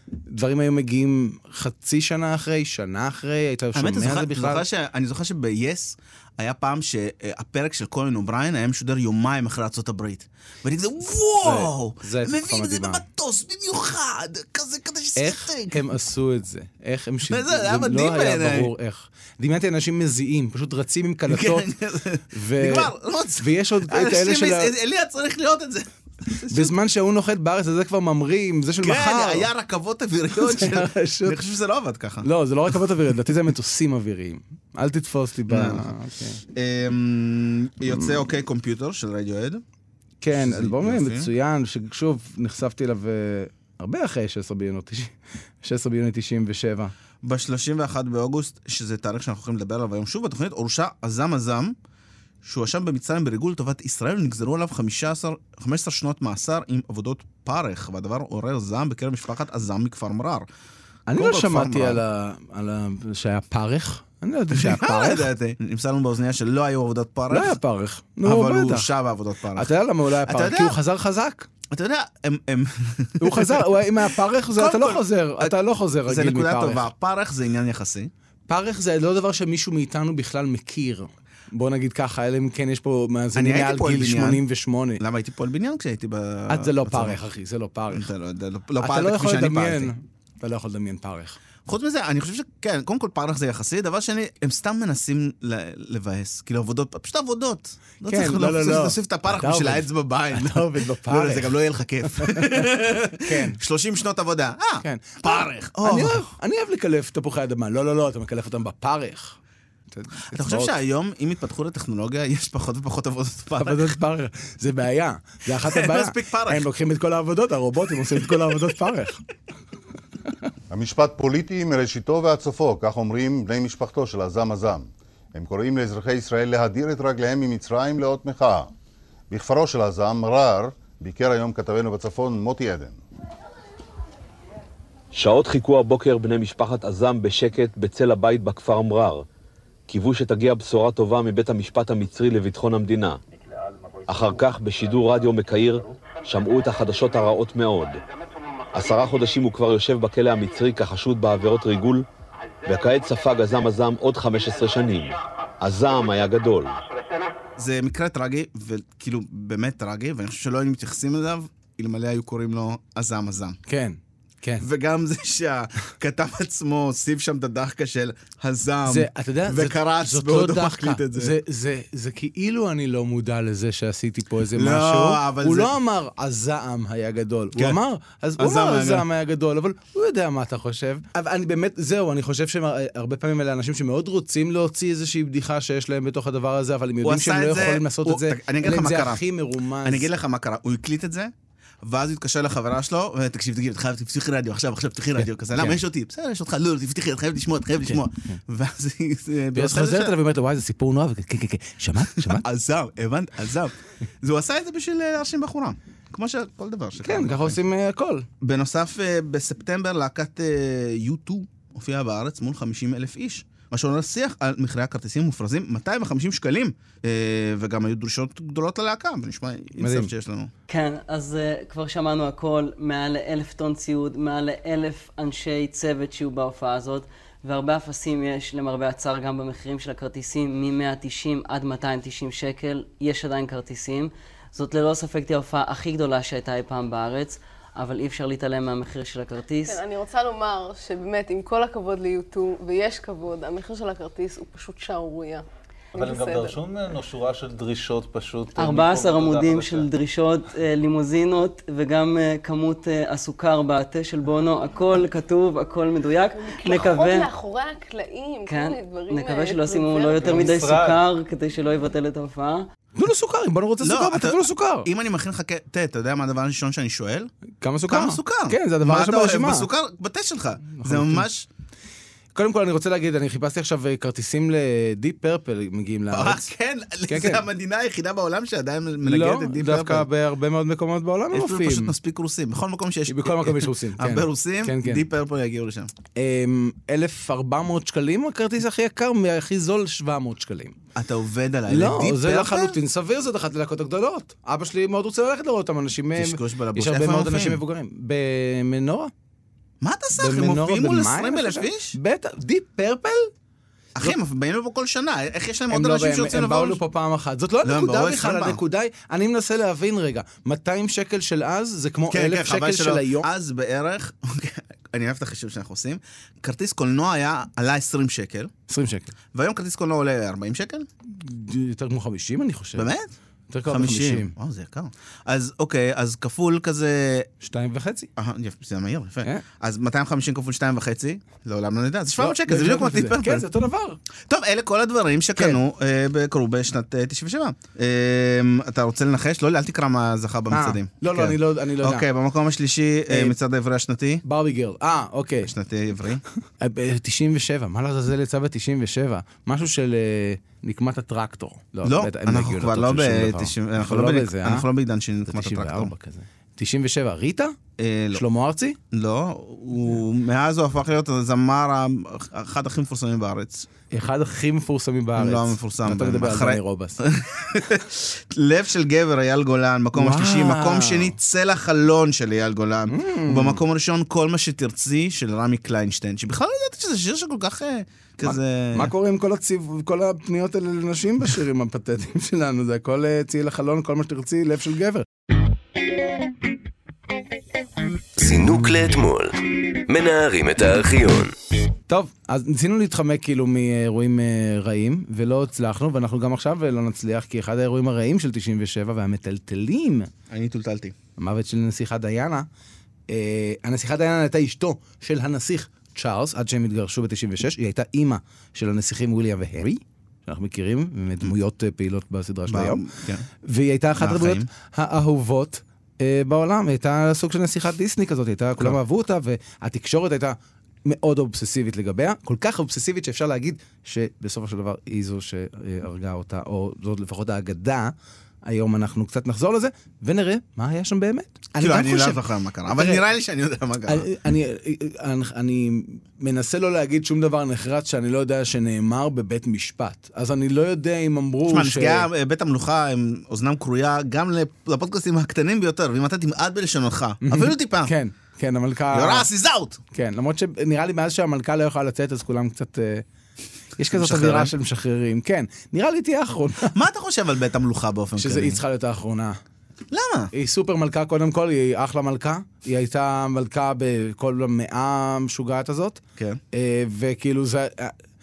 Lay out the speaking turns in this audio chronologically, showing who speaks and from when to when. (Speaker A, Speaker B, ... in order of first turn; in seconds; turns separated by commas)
Speaker A: 0.3-4.6, Speaker B: 3.8-15.8, Speaker A: 11.4-13.0, Speaker A: 15.2-21.7, Speaker B: 17.3-18.7, Speaker B: 21.3-26.7, Speaker A: 22.3-24.7, Speaker A: 26.5-29.5, Speaker B: 28.8-32.3, Speaker A: 30.4-31.4, Speaker A: 32.2-36.4, Speaker B: 35.5-35.9, Speaker B: 36.5-39.6, Speaker A: 40.2-46.9, Speaker B: 40.4-41.3, Speaker B: 47.2-51.8, Speaker B: 52.4-60.5, Speaker A: 61.1-65.3, Speaker B: 61.1-62.0, Speaker B: 64.5-67.6, Speaker A: 67.3-68.9, Speaker B: 68.2-70.8, Speaker A: 69.5-71.5, Speaker B: 71.7-73.7, Speaker A: 73.2-76.8, Speaker B: 74.5-78.1, Speaker A: 78.5-85.0, Speaker B: 83.3-84.4, Speaker B: 85.0-87.2, Speaker A: 86.5-88.1, Speaker B: 87.9-89.9, Speaker A: 88.8-91.4, Speaker B: 91.7-106.2, Speaker A: 98.0-101.6, Speaker A: 103.2-103.6, Speaker A: 104.8-109.4, Speaker A: 109.9-110.7, Speaker B: 110.3-113.9, Speaker A: 113.6-119.2, Speaker B: 115.6-116.7, Speaker C: 120.7-128.7, Speaker C: 129.3-133.0, Speaker D: 135.1-139.2, Speaker D: 139.9-143.2, Speaker D: 144.1-148.0, Speaker D: 148.7-152.1, Speaker D: 152.7-156.8, Speaker B: 157.6-163.6, Speaker A: 163.7-164.7, Speaker B: 164.6-171.3, Speaker A: 168.9-190.1, Speaker B: 174.6-175.7, Speaker B: 178.4-179.1, Speaker B: 187.0-189.2, Speaker B: 189.8-191.3, Speaker B: 191.8-200.1, Speaker A: 195.2-195.8, Speaker A: 199.5-202.4, Speaker B: 202.3-207.6, Speaker A: 207.0-208.3, Speaker B: 208.4-220.5, Speaker A: 219.8-220.1, Speaker E: 220.7-239.8, Speaker F: 239.6-245.4, Speaker G: 245.9-249.9, Speaker F: 246.1-246.4, Speaker E: 248.6-257.3, Speaker F: 256.4-260.2, Speaker E: 258.4-262.7, Speaker G: 260.1-261.1, Speaker A: 263.0-264.9, Speaker B: 263.8-267.3, Speaker A: 267.6-269.7, Speaker B: 267.9-271.5, Speaker A: 270.7-271.3, Speaker A: 272.4-276.5, Speaker B: 276.1-280.1, Speaker A: 277.1-277.4, Speaker A: 279.0-281.9, Speaker B: 281.3-285.9, Speaker A: 283.1-285.1, Speaker A: 286.2-290.8, Speaker B: 290.9-292.8, Speaker A: 291.7-299.1, Speaker B: 296.2-297.6, Speaker B: 299.8-301.9, Speaker A: 300.2-303.3, Speaker B: 304.0-306.8, Speaker A: 305.7-313.3, Speaker B: 307.6-308.6, Speaker B: 312.1-318.5, Speaker A: 318.7-319.1, Speaker B: 319.3-320.9, Speaker A: 321.1-322.9, Speaker B: 322.8-323.1, Speaker A: 323.5-324.3, Speaker B: 323.7-327.3, Speaker A: 327.4-328.1, Speaker B: 328.2-333.4, Speaker A: 332.2-334.0, Speaker B: 334.3-344.2, Speaker A: 340.5-342.1, Speaker A: 343.1-343.4, Speaker A: 344.2-345.5, Speaker B: 345.4-346.2, Speaker A: 346.6-354.7, Speaker B: 351.9-355.9, Speaker A: 355.3-357.6, Speaker B: 357.8-358.2, Speaker A: 358.1-358.8, Speaker B: 358.9-363.7, Speaker A: 363.9-367.0, Speaker B: 365.2-378.9, Speaker A: 369.9-371.1, Speaker A: 372.9-373.6, Speaker A: 378.2-385.1, Speaker H: 388.2-391.4, Speaker A: 391.9-400.1, Speaker B: 400.3-400.9, Speaker A: 401.2-402.5, Speaker A: 403.1-412.8, Speaker B: 412.5-413.3, Speaker A: 413.4-427.9, Speaker B: 414.0-414.5, Speaker A: 428.4-433.0, Speaker B: 431.6-434.1, Speaker A: 433.9-442.1, Speaker B: 441.5-447.9, Speaker A: 447.2-449.3, Speaker B: 448.9-449.8, Speaker A: 449.9-453.1, Speaker A: 453.8-456.8, Speaker B: 453.9-454.5, Speaker B: 456.7-458.6, Speaker A: 458.2-459.4, Speaker B: 459.9-460.3, Speaker A: 460.3-466.0, Speaker A: 466.5-467.9